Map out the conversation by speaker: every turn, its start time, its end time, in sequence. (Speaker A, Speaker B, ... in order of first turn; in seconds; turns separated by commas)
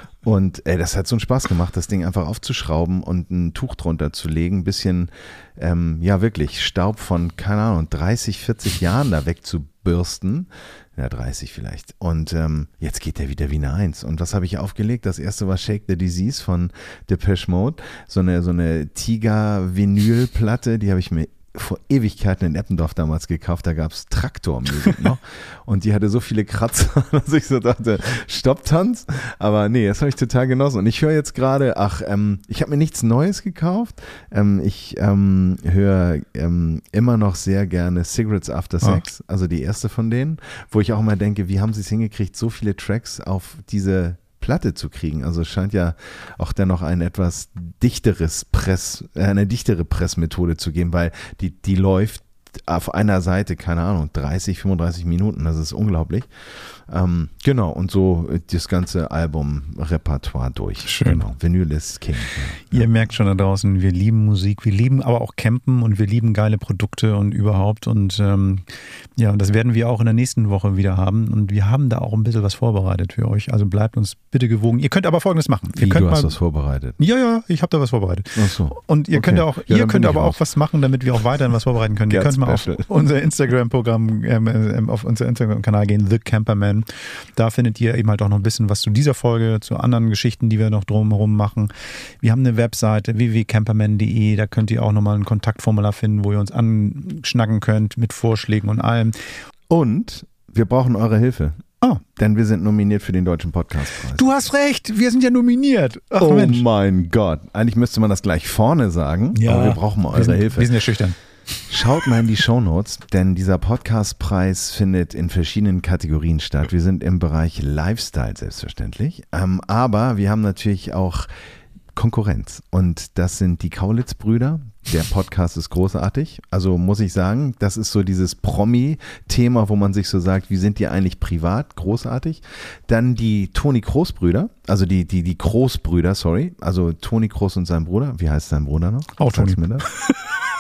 Speaker A: 0.2-56.3, Speaker A: 56.9-62.9, Speaker B: 60.9-61.3, Speaker B: 62.7-76.4, Speaker A: 75.8-77.0, Speaker B: 77.0-99.2, Speaker A: 78.3-80.4, Speaker A: 82.1-82.9, Speaker A: 99.7-101.6, Speaker A: 102.2-104.3, Speaker B: 104.2-106.7, Speaker A: 106.2-110.8, Speaker B: 109.3-111.2, Speaker A: 111.7-121.3, Speaker A: 121.9-139.9, Speaker B: 139.2-140.3